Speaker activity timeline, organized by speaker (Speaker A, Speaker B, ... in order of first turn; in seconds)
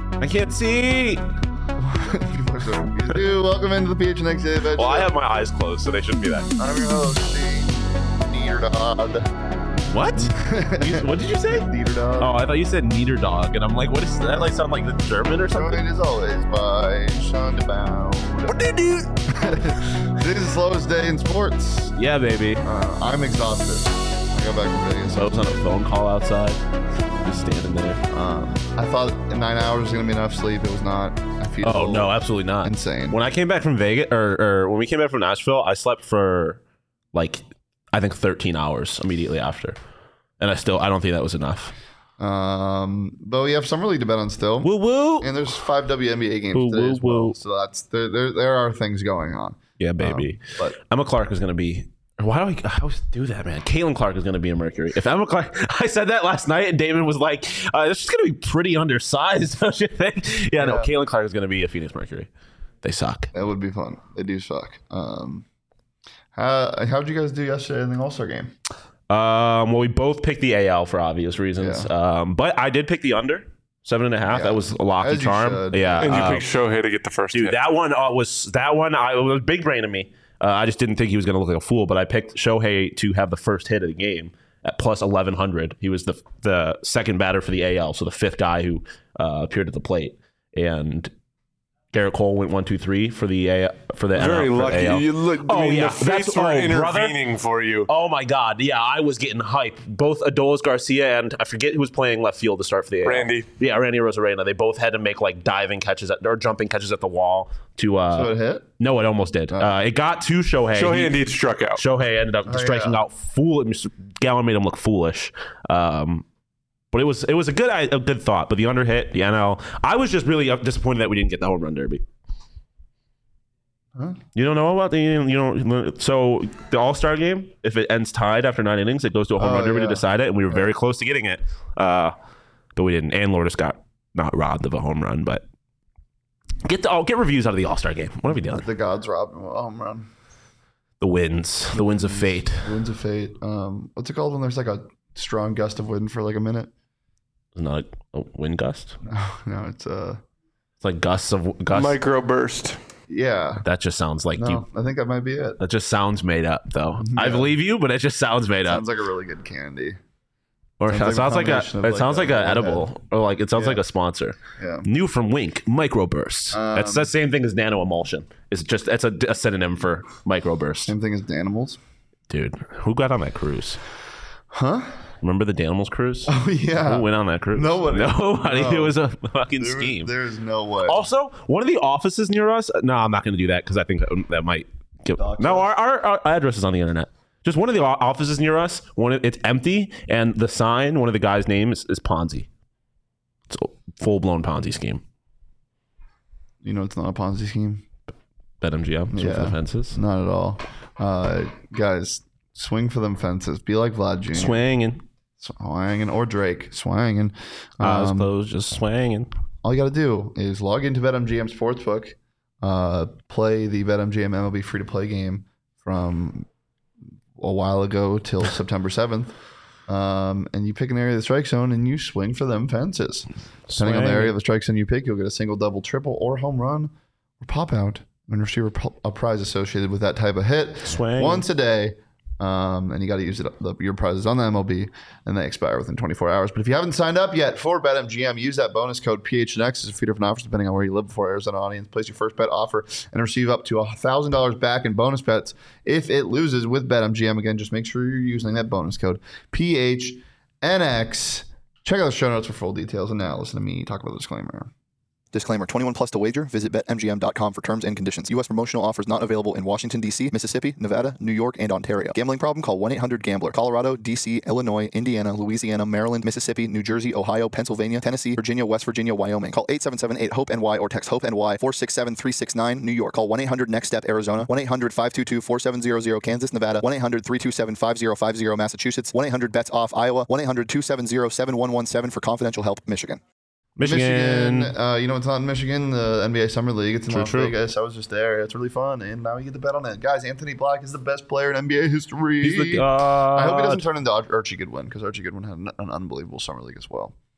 Speaker A: 0.2-1.2, 4.7-6.5, 9.9-15.8, 18.5-19.2, 21.9-22.7, 25.1-26.6, 27.2-28.0, 31.6-36.6, 37.1-39.8, 40.4-41.7, 44.6-45.3, 46.5-47.4, 49.8-62.3, 62.8-63.3, 69.1-76.5, 77.3-91.1, 91.9-97.2, 97.9-111.2, 111.8-116.2, 116.9-122.0, 124.3-132.1, 132.8-135.4, 136.6-138.7, 141.0-142.7, 147.6-149.0, 150.8-152.0, 153.6-154.6, 155.6-158.8, 160.8-170.9, 172.3-173.8, 175.2-180.1, 180.8-192.5, 193.5-195.0, 198.6-200.0, 204.3-205.0, 207.8-209.3, 223.7-224.3, 230.8-231.5, 283.8-284.8, 287.1-287.6, 292.4-293.8
Speaker B: 1.8-5.1, 6.6-9.3, 10.2-12.4, 15.5-18.7, 19.4-21.9, 22.6-25.5, 28.1-33.2, 42.2-44.7, 45.2-50.8, 60.6-60.9, 63.3-65.5, 66.3-68.5, 71.6-71.9, 74.3-76.2, 108.1-108.7, 112.5-113.0, 124.0-124.2, 129.4-130.7, 138.3-140.1, 141.8-146.7, 149.1-150.2, 153.1-153.6, 154.4-155.6, 157.0-157.6, 158.7-160.0, 160.9-162.9, 163.5-163.8, 164.6-164.9, 166.5-167.1, 170.9-171.8, 174.5-175.0, 176.3-179.0, 179.6-181.0, 185.2-185.7, 196.6-197.8, 199.1-204.6, 205.4-208.3, 209.6-216.5, 217.4-219.3, 219.9-254.7, 283.8-297.1
Speaker C: 76.0-77.6, 94.2-97.9, 103.0-103.5, 110.7-111.8, 151.7-152.8
Speaker D: 255.3-283.2